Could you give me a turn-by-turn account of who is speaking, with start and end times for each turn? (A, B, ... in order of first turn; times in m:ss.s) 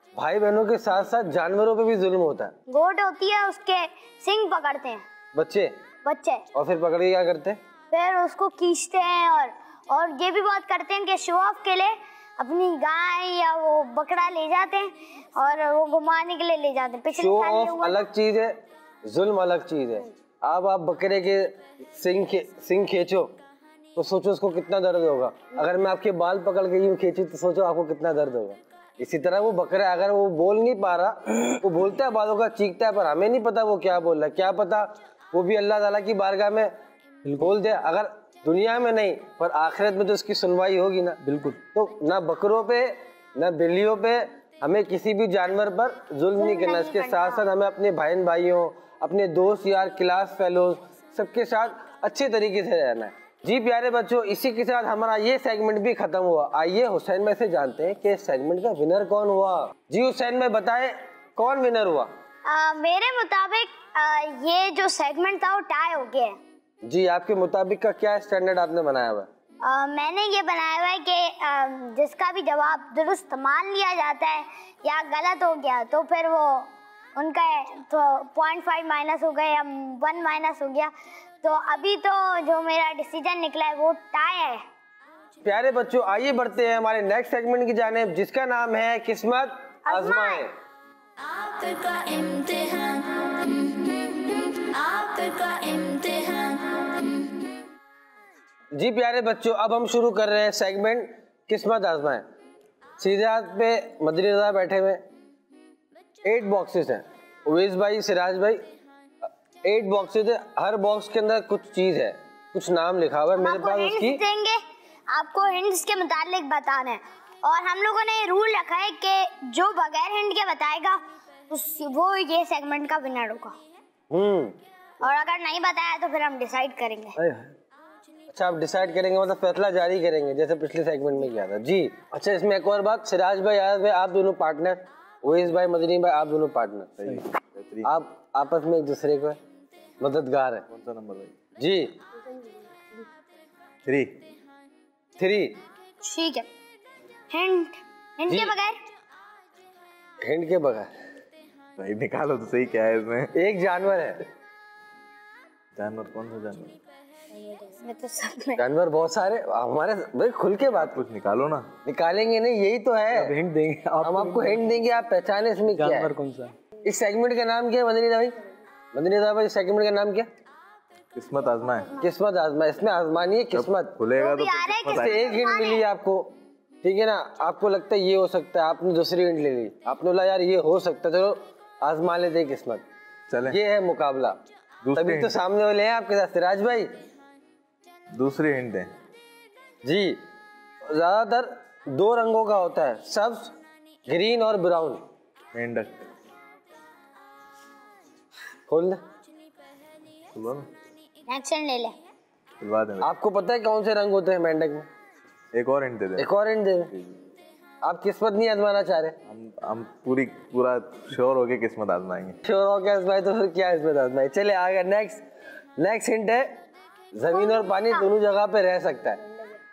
0:00.2-0:02.5 A
0:02.7-0:05.0 B
0:05.3-0:05.8 A
0:06.0-0:06.4 B
0:06.5-0:07.6 A
0:07.9-0:18.0 B
0:17.2-0:23.3 A
0:24.0-0:36.7 A
0:37.2-0:37.5 C
0:37.4-0:41.2 A
0:41.2-0:41.6 C
0:41.7-1:02.1 A
0:46.4-0:47.4 B
1:02.4-1:06.4 B
1:06.8-1:09.3 A
1:09.6-1:20.9 B
1:21.4-1:24.6 B
1:25.4-1:30.5 A
1:29.8-1:30.4 B
1:31.2-1:37.2 D
1:38.7-1:42.2 A
1:43.0-1:45.0 A
1:46.2-1:48.6 A
1:49.6-1:54.2 A
1:53.4-2:03.6 B
2:04.1-2:04.6 A
2:05.0-2:07.2 B
2:07.2-2:07.5 C
2:08.3-2:17.0 A
2:17.0-2:17.9 E
2:17.8-2:19.4 A
2:20.0-2:20.6 A
2:20.7-2:21.3 E
2:21.6-2:21.9 A
2:23.8-2:24.2 E
2:25.2-2:25.6 A
2:26.0-2:26.5 B
2:27.3-2:28.8 B
2:28.3-2:28.5 A
2:30.2-2:30.9 A
2:31.8-2:33.3 E
2:33.3-2:34.2 A
2:35.8-2:36.7 E
2:37.8-2:38.6 B
2:38.6-2:41.0 A
2:40.8-2:41.7 E
2:41.8-2:43.3 A
2:43.1-2:44.6 C
2:44.0-2:46.1 A
2:45.8-2:46.6 C
2:46.8-2:48.4 A
2:48.9-2:50.3 A
2:51.1-2:52.0 E
2:52.0-2:54.0 A
2:53.5-2:55.3 E
2:54.2-2:55.8 B
2:54.9-3:02.8 A
3:03.3-3:03.6 E
3:03.5-3:04.4 A
3:04.8-3:05.4 E
3:05.0-3:06.9 A
3:08.1-3:08.9 E
3:09.8-3:10.2 A
3:10.8-3:13.5 A
3:14.1-3:15.0 A
3:15.5-3:16.1 E
3:18.7-3:19.0 A
3:20.3-3:20.7 E
3:21.3-3:22.0 B
3:22.6-3:23.1 E
3:23.0-3:24.9 A
3:25.5-3:26.3 E
3:26.2-3:26.9 A
3:26.9-3:27.2 E
3:27.8-3:29.2 A
3:29.3-3:32.4 E
3:32.4-3:35.2 A
3:35.8-3:36.6 A
3:37.1-3:39.2 A
3:37.3-3:38.0 B